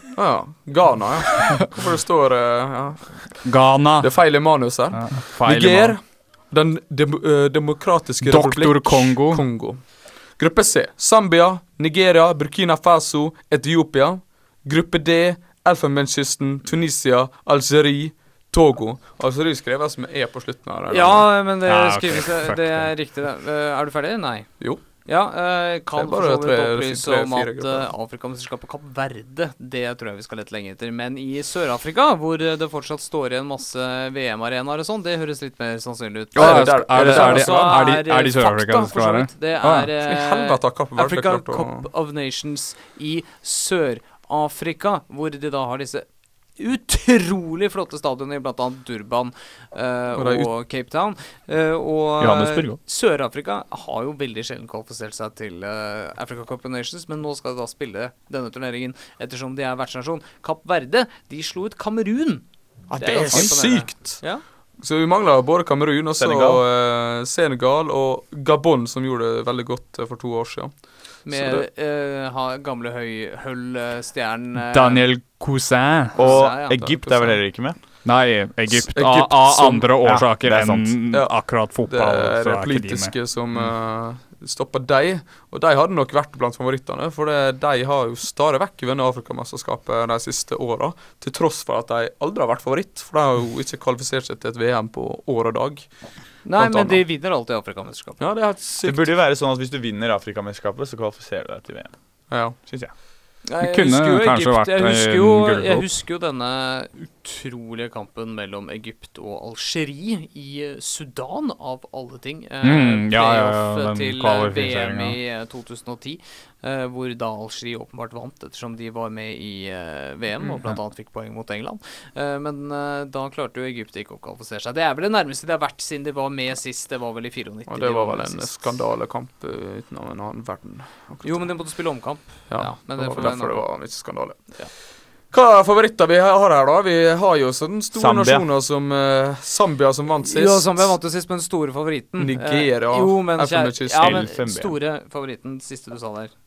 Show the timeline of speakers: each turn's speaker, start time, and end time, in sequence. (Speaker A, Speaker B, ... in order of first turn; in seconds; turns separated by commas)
Speaker A: 0.1-21.4, Speaker B: 3.5-6.0, Speaker B: 8.2-9.4, Speaker C: 20.9-64.4, Speaker B: 21.6-22.9, Speaker A: 24.6-24.9, Speaker A: 25.9-27.9, Speaker B: 36.3-39.9, Speaker A: 36.4-37.8, Speaker A: 40.0-41.9, Speaker A: 50.2-50.5, Speaker D: 52.2-52.8, Speaker D: 62.9-63.8, Speaker A: 63.3-71.6, Speaker D: 66.2-66.6, Speaker C: 71.2-75.1, Speaker B: 74.7-76.4, Speaker D: 76.2-77.8, Speaker C: 76.2-77.0, Speaker A: 76.7-77.4, Speaker B: 78.0-83.1, Speaker A: 78.7-80.3, Speaker D: 80.0-81.2, Speaker A: 81.1-97.0, Speaker C: 96.4-98.2, Speaker A: 98.2-99.2, Speaker D: 98.8-102.9, Speaker A: 102.3-102.6, Speaker C: 103.4-128.7, Speaker B: 103.6-105.9, Speaker B: 112.6-115.2, Speaker A: 127.7-131.8, Speaker C: 131.2-134.7, Speaker A: 132.5-141.0, Speaker D: 137.9-138.5, Speaker C: 140.3-146.3, Speaker A: 142.2-144.3, Speaker D: 144.0-144.8